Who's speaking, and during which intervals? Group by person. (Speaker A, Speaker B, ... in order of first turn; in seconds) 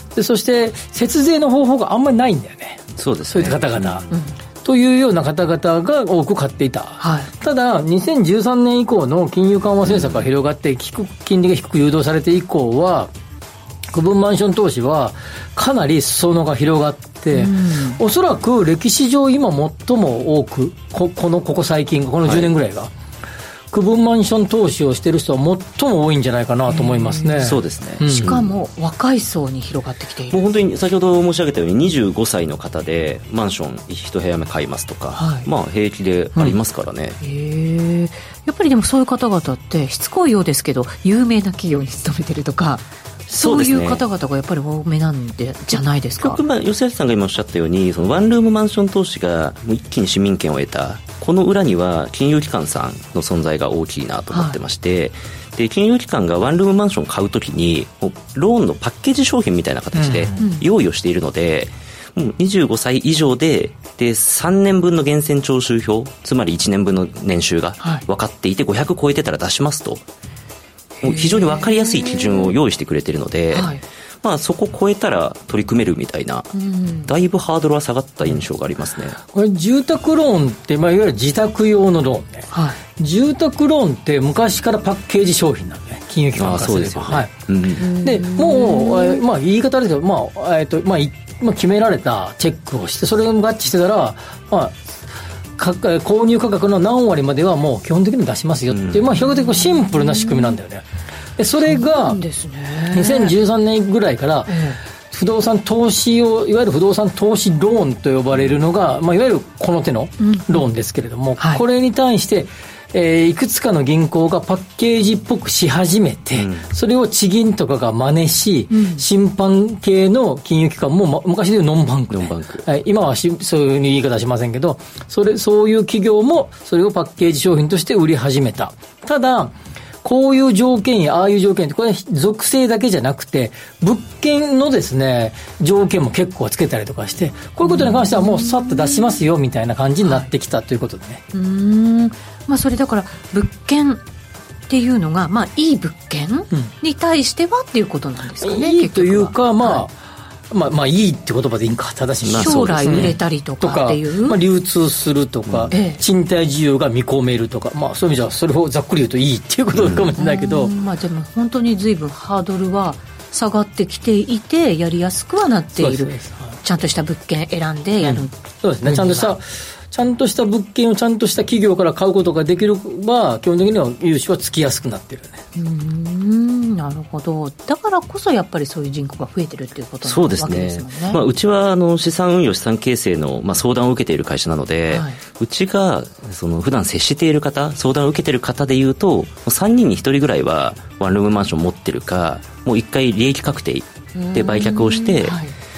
Speaker A: 0.1-4.1, 4.6-13.1, 13.9-22.9, 23.7-28.3, 59.9-60.4, 79.3-87.3, 88.0-94.9, 95.6-100.8, 101.4-102.2, 102.9-104.6, 105.1-141.2, 148.4-150.0, 150.5-160.7, 165.8-166.6, 168.0-175.4
Speaker B: 3.0-3.6, 9.8-10.2, 27.4-28.5, 30.3-37.2, 43.3-44.0, 45.8-70.0, 71.0-76.5, 77.1-79.2, 86.3-87.9, 98.7-99.0, 116.3-116.6, 122.1-122.6, 152.2-153.2, 155.5-155.7, 159.7-160.1, 180.0-195.4
Speaker C: 4.1-4.3, 7.0-7.3, 17.3-18.0, 26.7-27.5, 28.0-30.4, 35.1-35.5, 37.2-46.4, 54.3-54.6, 60.4-60.6, 67.8-68.0, 71.0-72.5, 73.5-73.8, 76.5-77.1, 82.5-82.8, 87.8-89.2, 99.2-100.6, 101.7-103.3, 104.5-104.8, 110.2-110.7, 111.4-111.6, 118.7-119.0, 137.6-139.2, 141.3-144.0, 144.7-149.8, 152.4-154.4, 155.7-156.0, 160.2-169.3, 175.5-181.2, 184.9-185.2, 194.1-195.5